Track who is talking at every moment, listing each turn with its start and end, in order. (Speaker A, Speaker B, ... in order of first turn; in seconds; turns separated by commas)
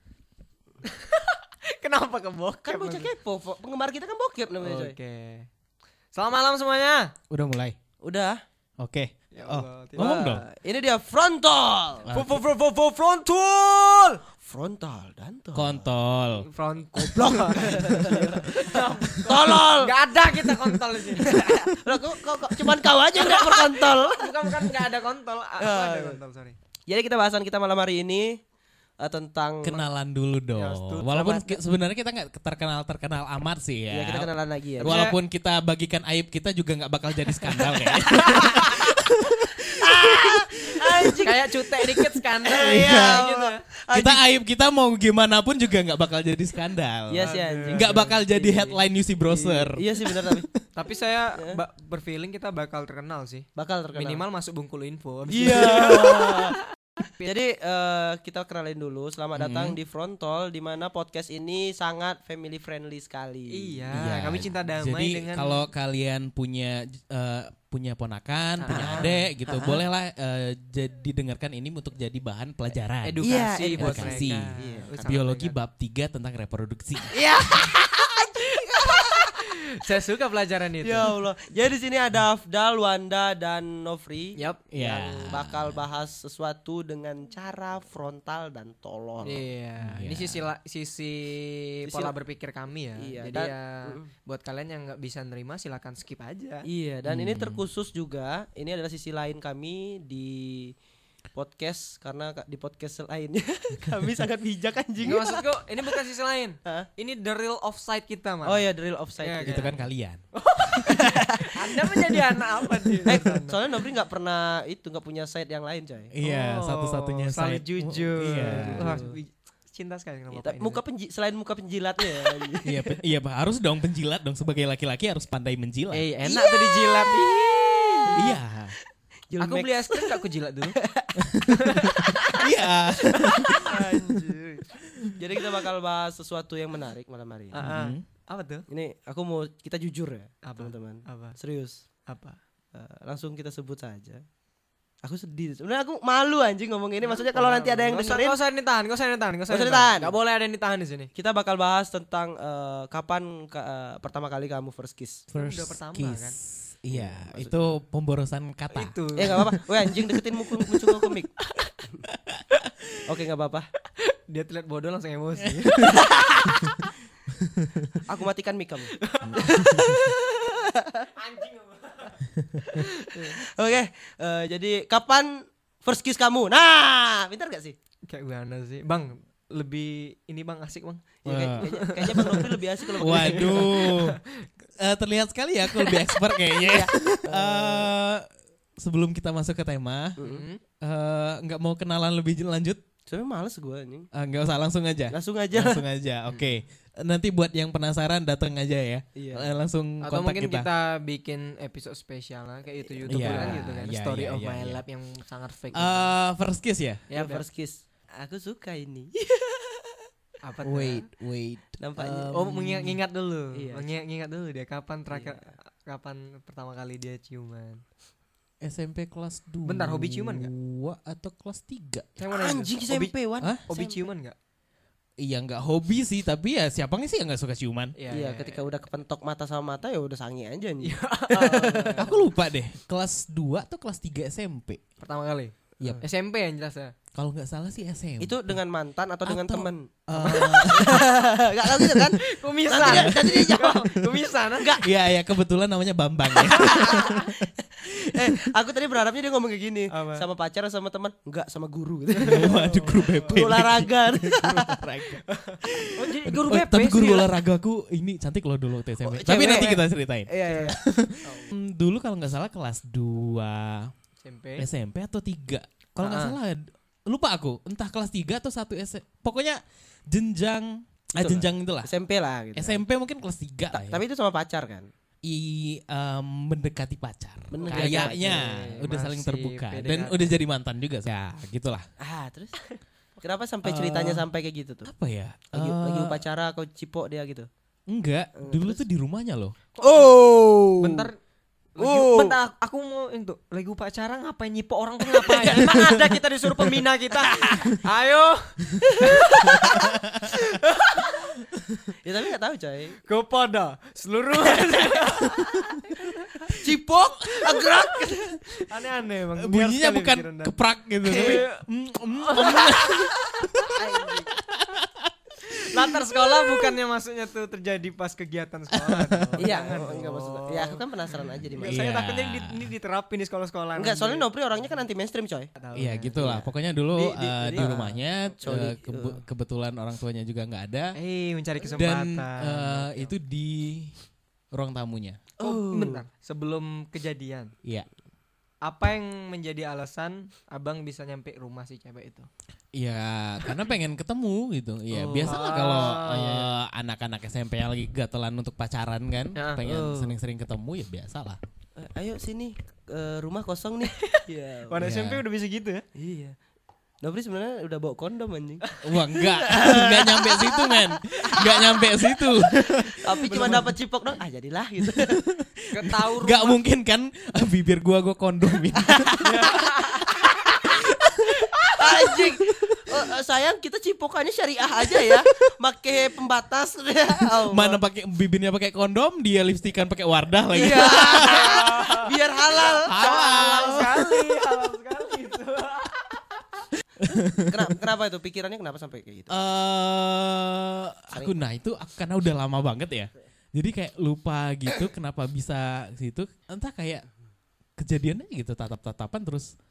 Speaker A: 0.8-3.1, Speaker B: 2.6-4.9, Speaker A: 4.6-5.5, Speaker A: 6.1-7.1, Speaker C: 7.3-7.8, Speaker B: 8.0-8.4, Speaker C: 8.8-10.4, Speaker A: 9.3-10.1, Speaker B: 9.9-12.1, Speaker C: 12.0-12.3, Speaker A: 12.1-14.2, Speaker B: 14.4-15.9, Speaker C: 15.5-16.4, Speaker A: 16.4-21.7, Speaker B: 16.9-20.6, Speaker C: 18.0-18.2, Speaker B: 21.1-24.5, Speaker A: 23.1-26.6, Speaker B: 25.6-26.2, Speaker B: 26.9-28.4, Speaker B: 29.0-29.9, Speaker C: 29.6-41.3, Speaker A: 30.5-31.6, Speaker B: 33.9-35.0, Speaker A: 34.8-35.2, Speaker B: 37.5-39.0, Speaker B: 39.8-44.2, Speaker A: 41.2-43.6, Speaker C: 42.5-43.2, Speaker C: 43.9-50.6, Speaker B: 47.1-48.1, Speaker A: 47.2-48.8, Speaker B: 49.3-50.5, Speaker A: 50.7-56.5, Speaker B: 53.5-54.2, Speaker B: 55.3-56.6, Speaker C: 55.5-56.2, Speaker B: 57.2-64.0, Speaker C: 59.3-59.8, Speaker A: 63.5-65.7, Speaker C: 63.9-73.2, Speaker A: 68.6-69.3, Speaker B: 68.7-69.8, Speaker A: 73.0-75.5, Speaker B: 73.2-75.0, Speaker C: 73.8-77.1, Speaker B: 77.1-79.5, Speaker A: 78.8-81.1, Speaker B: 80.8-89.5, Speaker C: 84.7-85.8, Speaker A: 89.2-96.7, Speaker C: 89.8-90.5, Speaker B: 91.8-92.2, Speaker B: 93.0-94.1, Speaker B: 96.7-100.7, Speaker C: 97.0-97.6, Speaker B: 101.3-105.9, Speaker A: 105.0-108.7, Speaker B: 108.4-109.8, Speaker A: 109.2-109.8, Speaker C: 109.4-110.2, Speaker A: 110.3-113.6, Speaker B: 110.9-111.7, Speaker B: 113.0-116.1, Speaker C: 116.1-119.0, Speaker A: 116.2-120.8, Speaker B: 118.3-119.2, Speaker B: 120.3-123.0, Speaker C: 122.6-126.0, Speaker A: 125.9-128.2, Speaker B: 126.2-128.4, Speaker C: 128.1-128.7, Speaker B: 129.3-137.6, Speaker A: 129.4-130.8, Speaker C: 131.2-133.8, Speaker A: 131.5-132.1, Speaker A: 133.6-134.2, Speaker A: 137.5-138.6, Speaker C: 137.6-138.0, Speaker B: 138.7-141.8, Speaker A: 140.4-141.4, Speaker A: 142.1-142.4, Speaker B: 142.7-144.2, Speaker B: 145.0-148.4, Speaker A: 147.0-151.1, Speaker B: 149.5-150.1, Speaker B: 151.1-155.2, Speaker C: 155.3-160.0, Speaker A: 155.4-156.3, Speaker B: 156.9-157.7, Speaker A: 158.7-159.5, Speaker B: 159.2-161.3, Speaker C: 162.1-162.6, Speaker B: 163.0-163.7, Speaker A: 164.1-166.1, Speaker C: 165.6-168.0, Speaker B: 165.9-166.5, Speaker B: 168.0-171.1, Speaker A: 169.0-170.6, Speaker C: 169.2-170.1, Speaker A: 171.1-173.4, Speaker C: 172.3-172.6, Speaker B: 173.1-177.8, Speaker A: 178.1-184.5, Speaker C: 181.2-182.4, Speaker B: 181.3-183.8, Speaker C: 183.0-184.2, Speaker C: 184.8-188.3, Speaker B: 186.7-187.9, Speaker C: 188.8-190.2, Speaker B: 190.2-190.4, Speaker A: 190.2-190.6, Speaker C: 190.8-192.8, Speaker B: 193.1-194.1, Speaker C: 194.1-200.7, Speaker B: 195.1-195.8, Speaker B: 199.1-199.5, Speaker A: 200.0-206.1, Speaker B: 202.8-203.6, Speaker C: 203.1-204.8, Speaker C: 205.7-207.0, Speaker A: 207.1-207.4, Speaker B: 207.1-210.1, Speaker A: 210.4-211.1, Speaker C: 210.6-213.0, Speaker B: 211.8-212.4, Speaker A: 212.3-217.8, Speaker B: 213.5-213.9, Speaker B: 215.1-215.4, Speaker C: 218.6-222.2, Speaker A: 219.6-220.5, Speaker A: 222.2-223.1, Speaker B: 222.3-224.1, Speaker A: 223.7-224.3, Speaker C: 225.2-227.9, Speaker A: 227.9-228.6, Speaker B: 228.1-232.1, Speaker A: 230.8-232.1, Speaker C: 232.0-234.8, Speaker A: 235.0-236.9, Speaker C: 237.1-238.6, Speaker B: 238.2-243.8, Speaker C: 239.2-241.1, Speaker A: 240.2-240.7, Speaker C: 241.6-242.2, Speaker A: 242.2-244.8, Speaker C: 242.8-243.9, Speaker B: 244.6-244.9, Speaker C: 244.8-248.5, Speaker B: 246.4-255.9, Speaker A: 246.6-247.0, Speaker A: 249.9-250.2, Speaker A: 252.2-253.4, Speaker C: 252.2-263.9, Speaker A: 255.9-257.3, Speaker B: 259.0-260.8, Speaker A: 260.4-261.5, Speaker A: 264.2-264.6, Speaker C: 264.6-269.6, Speaker A: 266.0-266.4, Speaker C: 270.1-271.9, Speaker B: 271.2-272.8, Speaker C: 272.6-274.0, Speaker B: 273.7-274.9, Speaker C: 275.2-281.9, Speaker B: 277.5-278.4, Speaker A: 277.6-280.3, Speaker B: 282.0-282.6, Speaker B: 283.2-284.9, Speaker C: 283.6-284.3, Speaker C: 284.9-286.2, Speaker B: 285.5-287.5, Speaker C: 287.9-289.5, Speaker B: 288.4-288.8, Speaker A: 289.8-290.1, Speaker B: 289.8-291.1, Speaker A: 290.8-291.1, Speaker A: 291.8-299.9, Speaker B: 291.8-292.4, Speaker B: 295.1-295.9, Speaker B: 297.3-297.8, Speaker B: 298.8-299.9, Speaker C: 299.5-300.3, Speaker A: 300.5-301.3, Speaker C: 301.6-301.9, Speaker B: 302.0-303.0, Speaker A: 303.1-306.6, Speaker B: 306.5-308.4, Speaker A: 307.5-311.6, Speaker C: 309.4-313.8, Speaker B: 311.1-311.4, Speaker A: 312.2-312.8, Speaker B: 312.4-314.1, Speaker A: 313.7-314.3, Speaker C: 314.3-316.7, Speaker A: 315.4-324.3, Speaker C: 318.7-319.5, Speaker B: 319.4-321.8, Speaker C: 321.6-322.6, Speaker B: 323.8-326.5, Speaker A: 325.6-326.2, Speaker C: 325.7-330.9, Speaker A: 326.9-328.0, Speaker B: 328.4-329.2, Speaker A: 330.9-333.1, Speaker C: 331.7-333.9, Speaker C: 334.5-335.2, Speaker B: 335.4-336.0, Speaker A: 335.4-337.5, Speaker A: 338.6-342.3, Speaker C: 342.7-351.4, Speaker B: 344.9-345.4, Speaker A: 345.2-346.5, Speaker A: 349.4-349.6, Speaker B: 349.6-350.1, Speaker B: 351.8-354.9, Speaker A: 354.0-355.8, Speaker C: 354.8-355.2, Speaker B: 355.9-356.4, Speaker B: 357.0-365.2, Speaker C: 358.8-363.7, Speaker A: 363.2-363.6, Speaker C: 364.8-369.6, Speaker A: 365.7-366.6, Speaker B: 368.8-370.9, Speaker A: 369.2-370.2, Speaker C: 370.6-373.1, Speaker B: 371.7-377.8, Speaker C: 377.3-381.8, Speaker B: 380.5-383.5, Speaker A: 380.8-386.4, Speaker C: 382.9-384.2, Speaker C: 387.0-387.7, Speaker B: 387.1-389.3, Speaker C: 389.3-397.0, Speaker B: 391.1-391.4, Speaker C: 397.8-399.5